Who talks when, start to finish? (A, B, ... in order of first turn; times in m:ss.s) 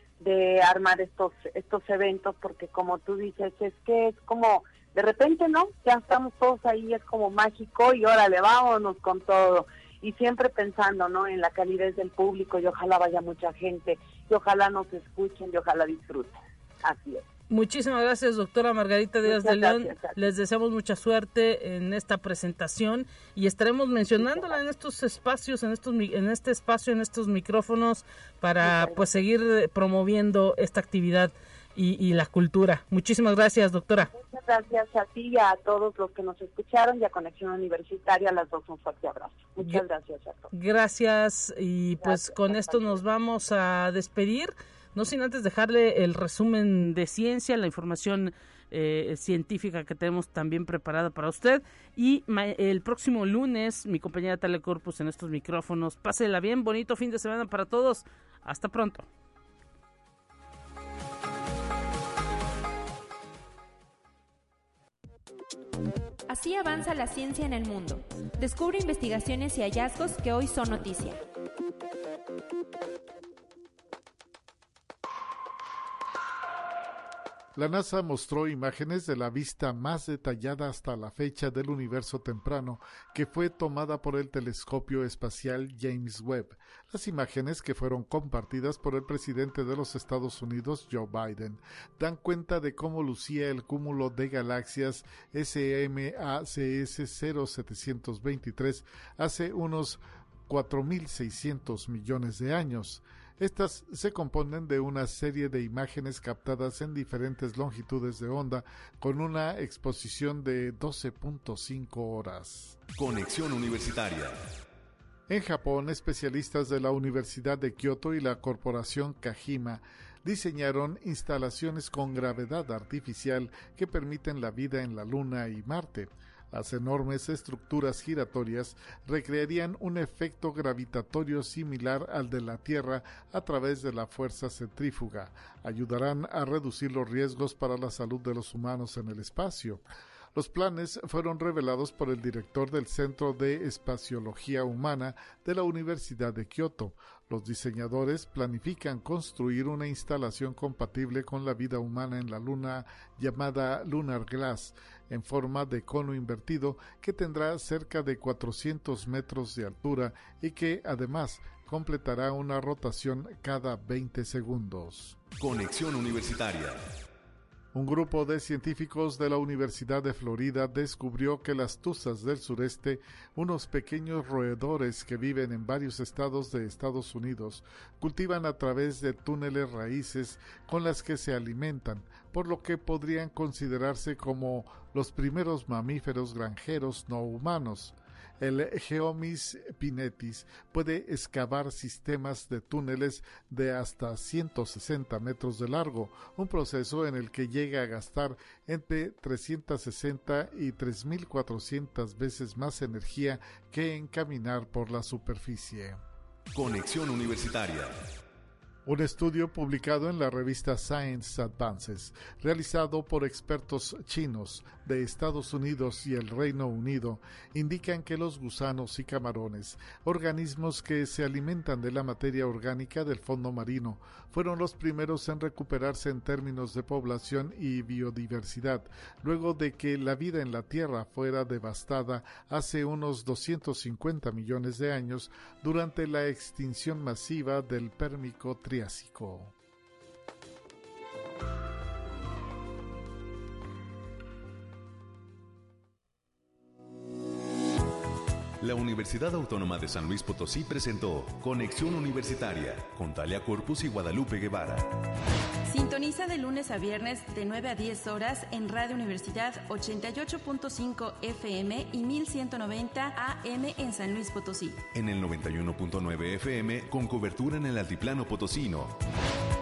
0:00.2-0:17.3 A
0:17.5-0:34.1 B
0:19.2-0:20.3 A
0:24.2-0:24.5 A
0:28.6-0:29.0 A
0:34.2-0:40.5 A
0:40.5-0:59.1 B
0:42.0-0:43.0 A
1:06.3-1:11.2 C
1:17.6-1:52.8 D
1:53.0-1:54.4 E
1:55.3-2:19.8 D
2:20.4-2:45.2 D
2:45.4-2:46.9 E
2:47.7-3:26.0 D
3:26.5-3:28.0 E
3:28.9-3:59.5 D
4:08.6-4:15.0 E
4:15.7-4:24.8 C
4:24.9-4:29.0 E